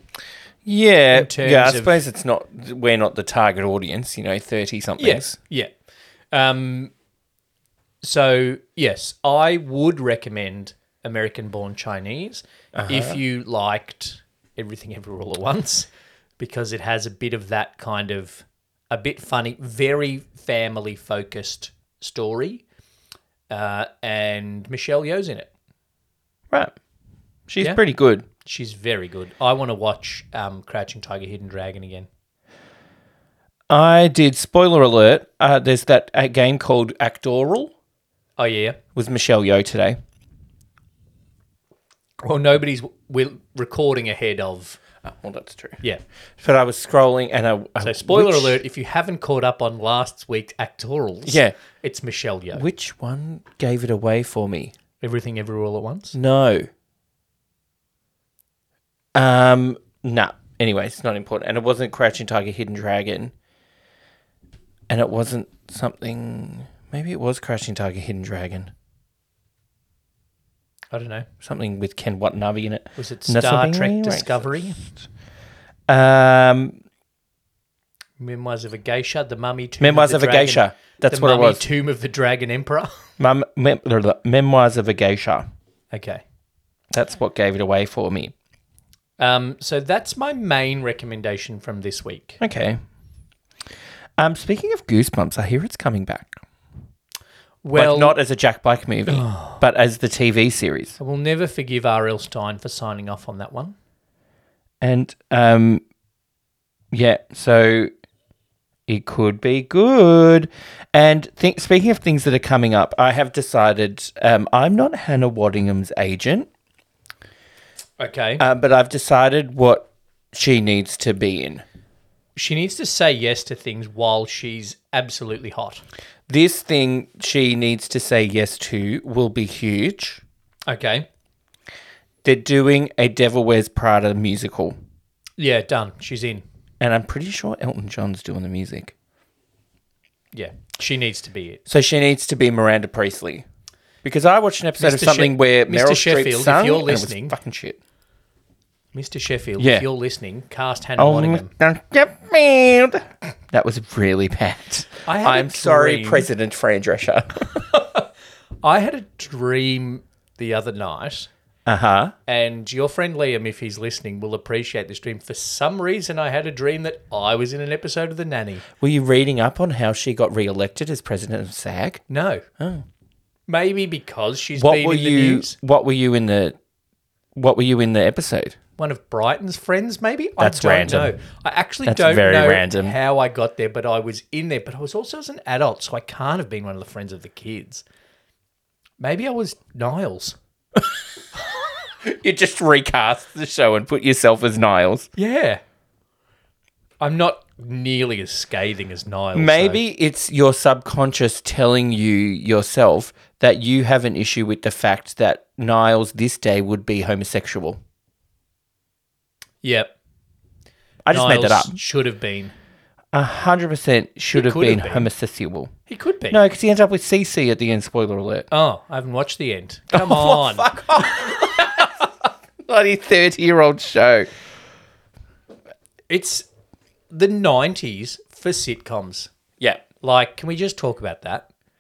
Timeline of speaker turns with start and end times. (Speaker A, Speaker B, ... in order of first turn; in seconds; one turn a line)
Speaker A: 0.7-5.4
Speaker B: 1.1-2.0
Speaker B: 5.0-5.7
Speaker B: 6.3-6.9
Speaker B: 8.0-15.9
Speaker A: 12.8-13.2
Speaker B: 16.4-22.6
Speaker B: 23.5-25.5
Speaker A: 27.5-28.2
Speaker B: 28.4-32.1
Speaker A: 33.7-37.7
Speaker B: 38.4-38.8
Speaker A: 39.0-40.0
Speaker B: 42.2-44.8
Speaker A: 45.0-45.8
Speaker A: 46.4-48.6
Speaker B: 47.8-52.6
Speaker A: 51.3-51.6
Speaker A: 52.5-54.7
Speaker B: 55.0-56.2
Speaker A: 56.1-56.7
Speaker A: 59.1-63.3
Speaker A: 64.9-68.7
Speaker B: 70.9-71.3
Speaker A: 71.4-75.0
Speaker B: 73.0-74.8
Speaker A: 75.9-76.8
Speaker B: 78.2-82.9
Speaker A: 79.8-81.6
Speaker A: 83.2-85.5
Speaker B: 85.9-86.2
Speaker A: 86.9-88.3
Speaker B: 89.2-92.4
Speaker A: 92.4-92.8
Speaker A: 94.2-96.3
Speaker B: 97.6-98.2
Speaker A: 97.8-101.0
Speaker B: 99.1-99.6
Speaker B: 101.0-103.8
Speaker A: 104.8-105.8
Speaker A: 106.9-107.9
Speaker A: 108.9-116.5
Speaker B: 118.0-118.4
Speaker A: 118.4-121.6
Speaker B: 122.4-125.8
Speaker A: 126.3-130.2
Speaker B: 130.7-131.1
Speaker A: 132.2-134.8
Speaker B: 135.4-136.4
Speaker A: 136.8-138.9
Speaker B: 140.3-141.6
Speaker A: 141.7-143.4
Speaker A: 144.0-147.8
Speaker B: 144.8-147.4
Speaker B: 148.9-151.5
Speaker A: 149.6-149.9
Speaker A: 151.0-157.6
Speaker B: 155.1-156.3
Speaker B: 157.6-158.1
Speaker B: 158.6-161.3
Speaker A: 161.7-162.2
Speaker B: 162.3-168.7
Speaker A: 168.8-172.0
Speaker B: 172.1-172.5
Speaker A: 172.6-172.9
Speaker B: 173.5-175.5
Speaker A: 174.6-176.6
Speaker A: 177.3-178.6
Speaker B: 178.8-187.8
Speaker A: 180.4-181.2
Speaker A: 181.9-183.0
Speaker B: 189.0-190.4
Speaker A: 192.0-195.1
Speaker B: 195.2-195.6
Speaker B: 197.0-199.8
Speaker A: 199.3-207.8
Speaker B: 209.6-209.9
Speaker A: 211.1-211.8
Speaker B: 211.1-212.5
Speaker A: 213.1-215.7
Speaker B: 214.3-215.1
Speaker B: 215.9-216.4
Speaker A: 216.3-218.5
Speaker B: 218.5-221.9
Speaker A: 219.9-222.1
Speaker A: 222.6-224.3
Speaker B: 226.1-226.5
Speaker B: 227.1-229.3
Speaker B: 230.0-231.5